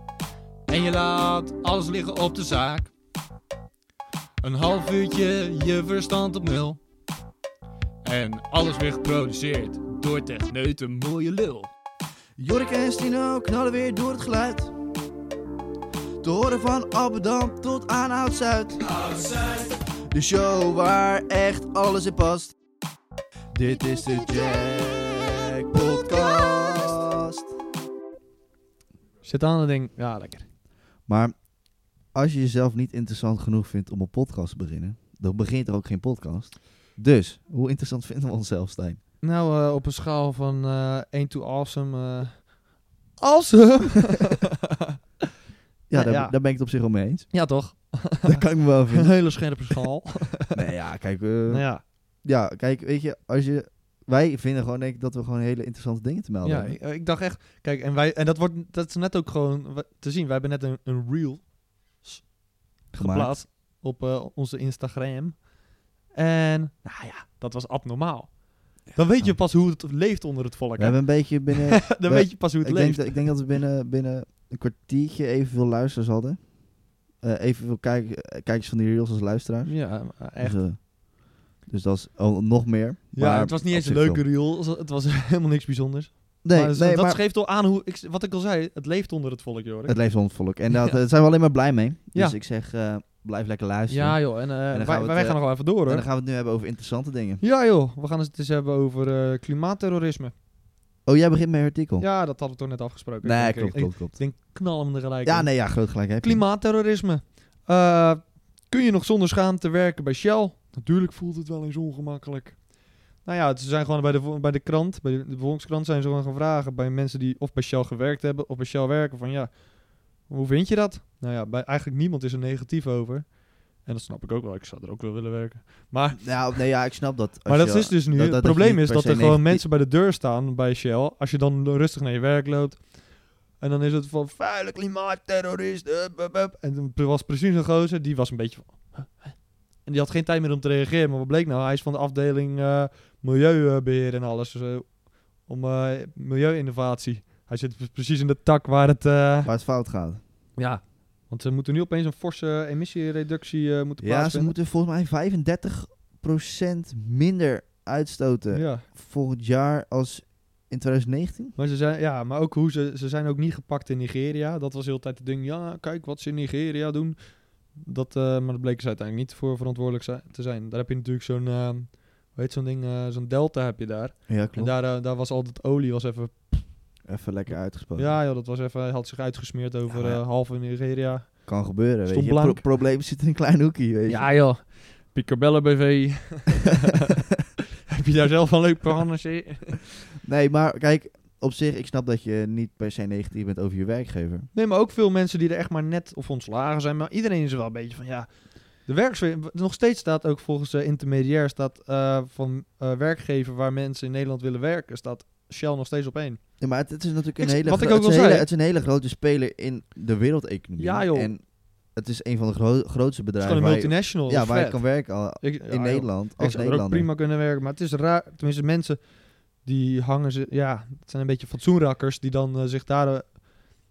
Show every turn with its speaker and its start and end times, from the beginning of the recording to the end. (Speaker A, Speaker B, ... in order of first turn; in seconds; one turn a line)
Speaker A: 0.7-2.9
Speaker A: 4.4-6.8
Speaker A: 8.0-11.7
Speaker B: 12.4-14.8
Speaker B: 16.2-22.6
Speaker A: 19.2-19.5
Speaker B: 23.5-27.5
Speaker A: 29.2-30.5
Speaker B: 31.1-31.3
Speaker B: 32.1-39.0
Speaker A: 39.2-42.5
Speaker A: 43.2-44.5
Speaker B: 45.9-47.5
Speaker A: 45.9-46.4
Speaker A: 47.3-50.5
Speaker B: 48.2-49.8
Speaker B: 50.5-51.7
Speaker A: 51.5-51.8
Speaker B: 52.2-56.8
Speaker A: 56.4-62.3
Speaker A: 62.9-65.5
Speaker B: 62.9-63.4
Speaker A: 66.1-73.4
Speaker B: 66.9-67.1
Speaker B: 70.8-76.5
Speaker B: 77.2-84.2
Speaker A: 79.7-80.6
Speaker A: 83.2-90.0
Speaker B: 86.4-87.2
Speaker B: 89.9-97.4
Speaker A: 93.9-96.0
Speaker A: 97.4-100.3
Speaker B: 101.1-102.1
Speaker A: 102.0-112.6
Speaker B: 103.2-104.2
Speaker B: 105.2-106.5
Speaker A: 113.2-126.7
Speaker B: 126.2-129.6
Speaker A: 127.5-133.0
Speaker A: 133.6-149.5
Speaker B: 149.4-150.2
Speaker A: 150.6-154.6
Speaker B: 154.0-161.6
Speaker A: 158.5-158.9
Speaker A: 161.6-176.8
Speaker B: 174.3-174.7
Speaker B: 177.1-178.2
Speaker A: 177.5-182.6
Speaker B: 179.9-180.2
Speaker B: 181.5-184.3
Speaker A: 184.1-187.2
Speaker A: 187.9-189.8
Speaker B: 190.2-194.5
Speaker A: 194.5-206.4
Speaker B: 206.6-217.1
Speaker A: 207.4-208.5
Speaker A: 210.8-211.3
Speaker A: 213.4-223.4